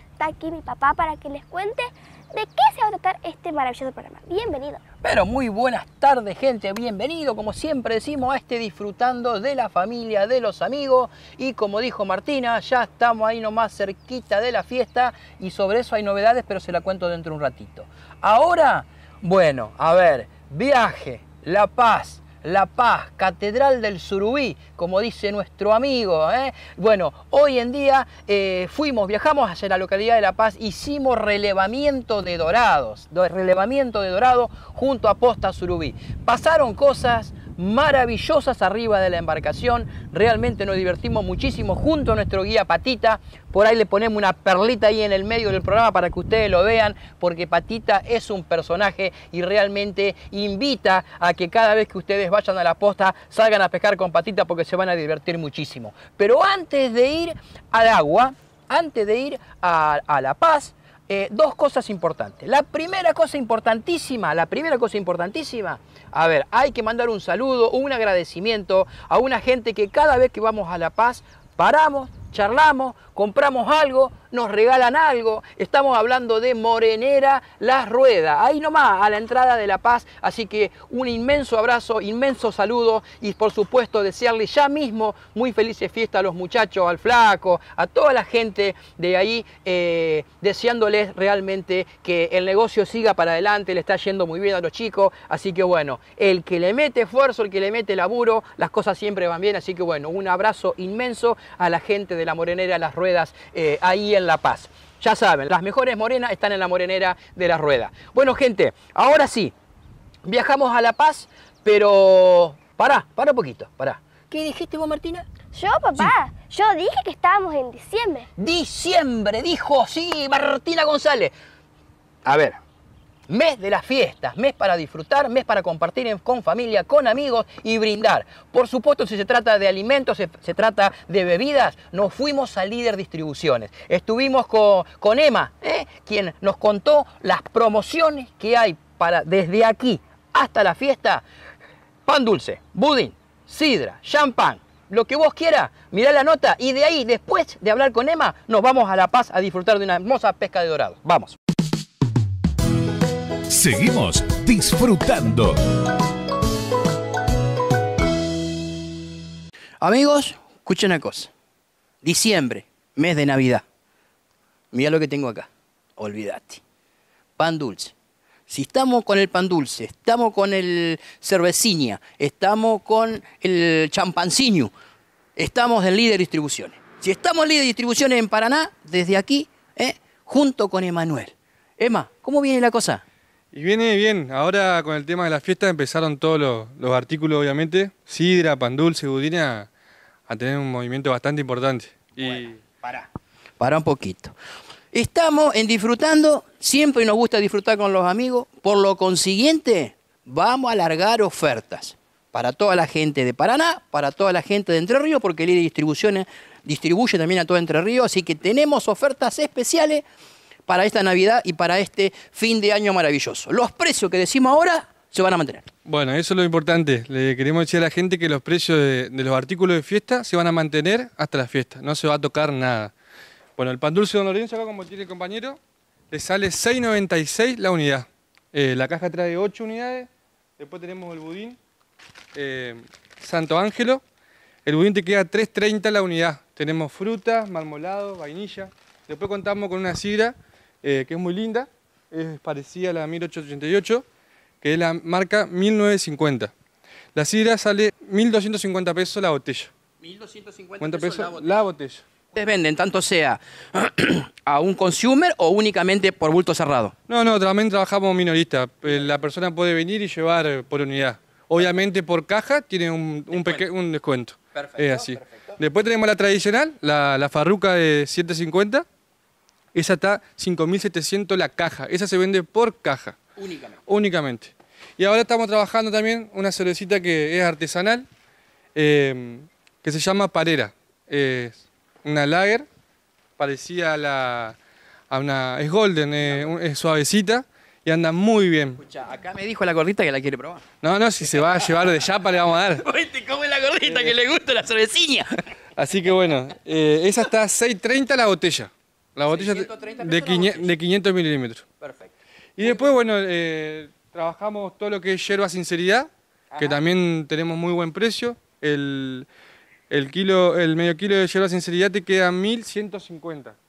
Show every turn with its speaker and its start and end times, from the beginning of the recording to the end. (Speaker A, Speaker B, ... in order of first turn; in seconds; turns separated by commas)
Speaker A: 0.2-4.8, Speaker B: 5.0-109.5, Speaker B: 110.2-115.2, Speaker A: 115.5-118.3, Speaker B: 118.4-121.3, Speaker B: 122.2-122.6, Speaker B: 123.3-141.2, Speaker B: 142.1-151.3, Speaker C: 153.5-155.6, Speaker B: 159.8-161.3, Speaker B: 162.0-163.6, Speaker B: 164.7-166.6, Speaker B: 167.4-167.9, Speaker B: 168.5-174.7, Speaker B: 175.3-183.0, Speaker D: 183.5-189.7, Speaker D: 190.3-192.6, Speaker B: 192.2-193.1, Speaker B: 193.6-194.3, Speaker B: 194.9-210.0, Speaker B: 210.7-215.7, Speaker D: 215.8-222.9, Speaker D: 223.6-225.6, Speaker D: 226.1-230.1, Speaker D: 230.6-231.6, Speaker D: 232.3-234.0, Speaker D: 234.7-244.0, Speaker D: 244.6-246.5, Speaker D: 247.1-249.7, Speaker B: 250.0-251.6, Speaker D: 250.8-252.0, Speaker B: 252.3-256.9, Speaker D: 257.1-268.8, Speaker B: 263.3-263.6, Speaker B: 264.5-265.6, Speaker D: 269.7-273.2, Speaker B: 273.4-273.8, Speaker D: 273.9-278.1, Speaker D: 278.7-282.6, Speaker D: 283.4-284.6, Speaker D: 285.1-288.8, Speaker B: 286.2-286.5, Speaker B: 288.8-290.6, Speaker D: 290.8-292.8, Speaker B: 291.2-292.0, Speaker B: 292.8-295.3, Speaker D: 295.8-301.6, Speaker B: 299.3-300.7, Speaker B: 301.8-302.9, Speaker D: 302.6-309.3, Speaker B: 306.5-306.8, Speaker D: 309.9-313.6